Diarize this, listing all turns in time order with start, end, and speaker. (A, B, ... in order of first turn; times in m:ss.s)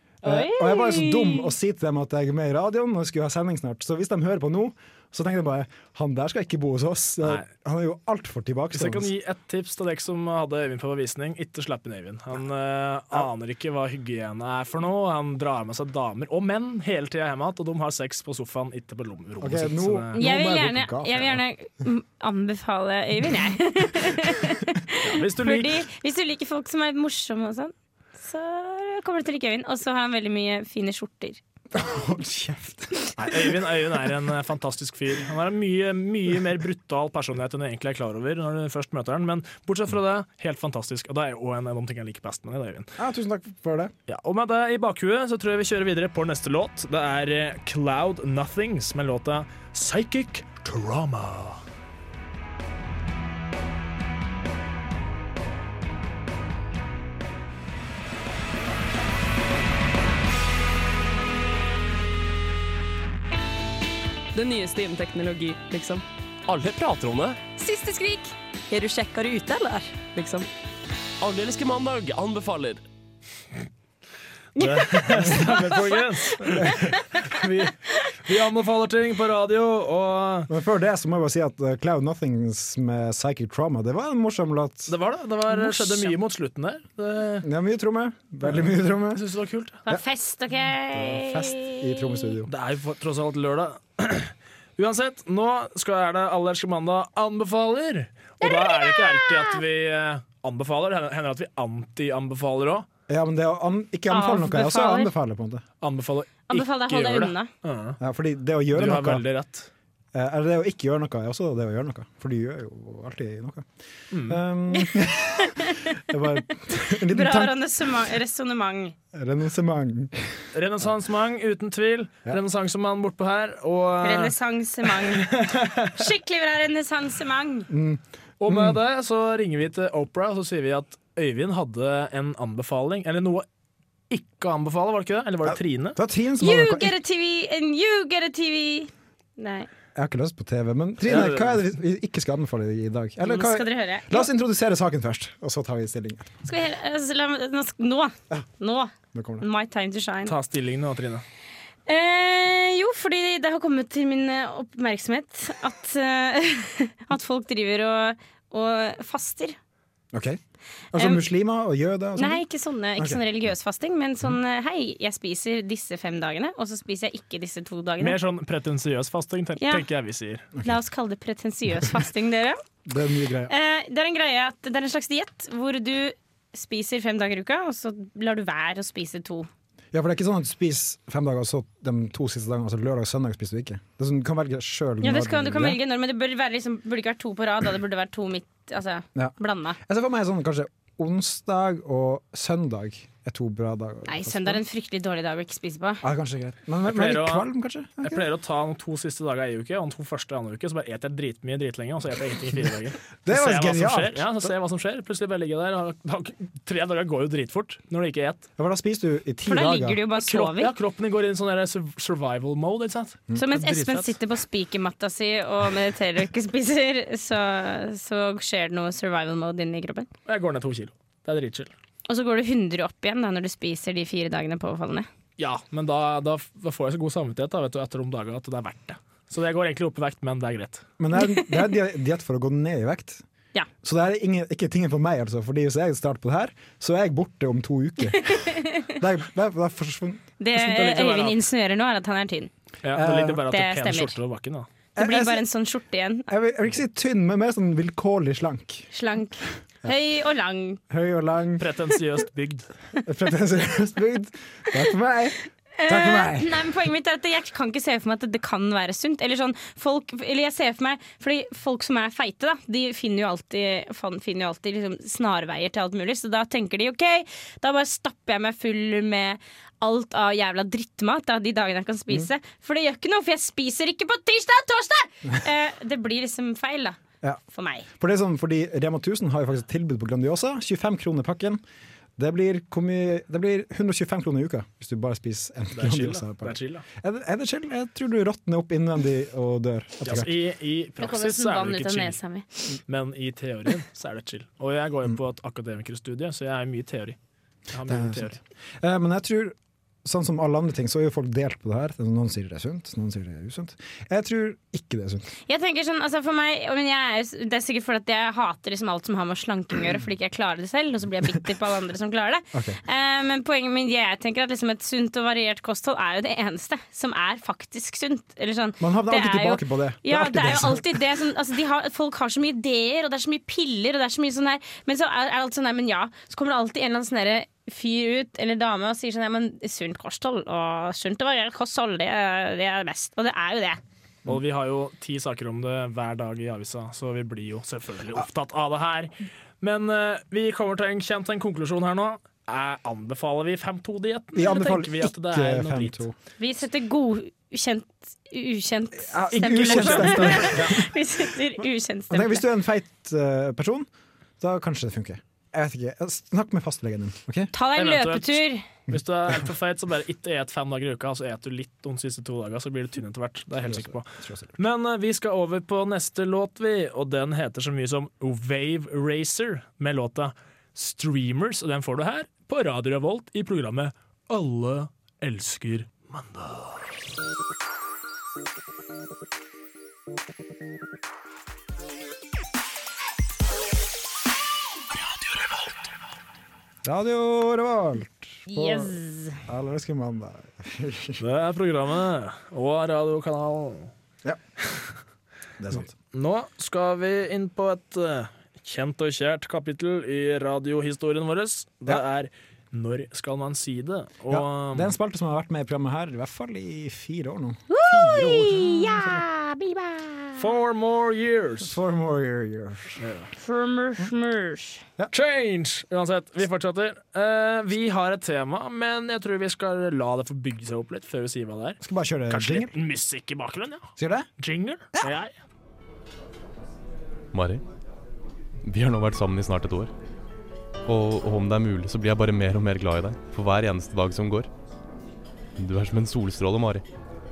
0:00.2-0:01.5 A
0:00.2-0:09.1 B
0:08.7-0:20.2 C
0:19.4-0:21.4 B
0:20.2-0:31.4 A
0:25.0-0:25.8 C
0:31.7-0:33.1 B
0:33.2-0:42.9 C
0:43.0-0:43.9 B
0:44.1-0:51.6 C
1:04.3-1:06.0 D
1:06.5-1:07.4 E
1:07.6-1:08.3 A
1:08.7-1:10.5 D
1:11.2-1:12.8 E
1:14.6-1:20.5 C
1:14.6-1:16.0 A
1:15.2-1:15.6 B
1:20.5-1:24.9 B
1:24.9-1:27.5 C
1:25.5-1:26.1 A
1:27.4-1:29.2 B
1:28.4-1:29.8 C
1:29.9-1:32.2 A
1:30.9-1:32.5 B
1:32.5-1:42.9 C
1:38.4-1:39.6 A
1:43.1-1:45.6 B
1:44.1-1:45.1 A
1:45.8-1:48.0 C
1:46.5-1:47.5 A
1:48.0-1:49.3 B
1:48.7-1:49.7 C
1:50.1-1:53.7 B
1:54.1-1:54.4 C
1:54.2-1:57.6 B
1:54.8-1:56.0 A
1:57.1-1:59.0 A
1:59.1-2:00.4 B
2:00.5-2:06.0 C
2:04.0-2:05.4 A
2:05.9-2:07.7 A
2:07.7-2:08.8 B
2:08.4-2:13.5 C
2:14.1-2:16.0 C
2:15.5-2:17.0 B
2:16.4-2:19.7 A
2:20.0-2:26.3 B
2:21.0-2:21.6 C
2:23.2-2:24.3 A
2:26.4-2:30.4 A
2:29.1-2:29.4 B
2:30.3-2:31.2 C
2:31.9-2:39.6 A
2:40.1-2:40.4 B
2:40.9-2:42.4 B
2:41.0-2:41.2 A
2:42.2-2:48.2 A
2:48.0-2:50.5 C
2:49.6-2:49.9 A
2:50.6-2:52.6 A
2:52.9-2:53.5 B
2:53.5-2:59.5 A
2:59.9-3:05.8 B
3:05.0-3:09.8 A
3:09.2-3:14.6 B
3:14.1-3:16.0 A
3:16.0-3:18.2 B
3:16.8-3:17.5 C
3:18.0-3:28.5 C
3:23.2-3:24.5 B
3:28.6-3:30.0 B
3:29.5-3:30.7 A
3:30.2-3:34.1 C
3:33.4-3:40.1 A
3:40.3-3:41.7 C
3:42.1-3:45.1 A
3:45.4-3:50.8 C
3:51.0-3:53.2 B
3:51.2-3:51.5 A
3:53.8-4:00.3 B
3:58.1-3:58.9 A
4:00.4-4:02.5 A
4:00.5-4:01.4 C
4:02.8-4:04.7 C
4:02.9-4:03.4 B
4:03.5-4:04.2 A
4:05.0-4:05.5 B
4:05.0-4:06.3 A
4:06.3-4:08.9 B
4:08.9-4:10.8 A
4:10.9-4:11.8 B
4:11.6-4:12.7 C
4:13.0-4:16.5 B
4:15.8-4:37.0 A
4:37.5-4:37.9 A
4:38.0-4:41.6 B
4:42.2-4:50.3 B
4:45.8-4:46.8 C
4:50.0-4:52.2 C
4:51.0-4:52.4 A
4:52.9-4:57.2 C
4:57.7-4:58.4 C
4:57.9-5:05.3 B
5:05.5-5:33.8 A
5:12.5-5:12.8 B
5:18.8-5:21.0 B
5:34.3-5:46.0 C
5:44.3-5:46.2 B
5:46.4-5:52.5 A
5:49.1-5:50.8 B
5:49.3-5:50.8 C
5:52.1-5:53.9 B
5:54.4-5:57.5 B
5:57.5-5:58.6 A
5:57.8-6:16.8 C
6:03.6-6:04.6 B
6:26.8-6:31.2 B
6:28.5-6:29.4 A
6:31.2-6:33.9 C
6:35.6-6:35.9 B
6:36.1-6:44.9 C
6:44.3-6:49.3 B
6:47.7-6:50.4 A
6:50.4-6:51.8 C
6:51.6-6:53.0 B
6:53.0-6:53.3 C
6:53.4-6:54.8 A
6:55.1-7:05.3 C
7:01.8-7:02.7 B
7:04.0-7:04.3 B
7:07.3-7:07.6 F
7:08.6-7:09.9 F
7:10.9-7:14.5 F
7:15.6-7:16.8 F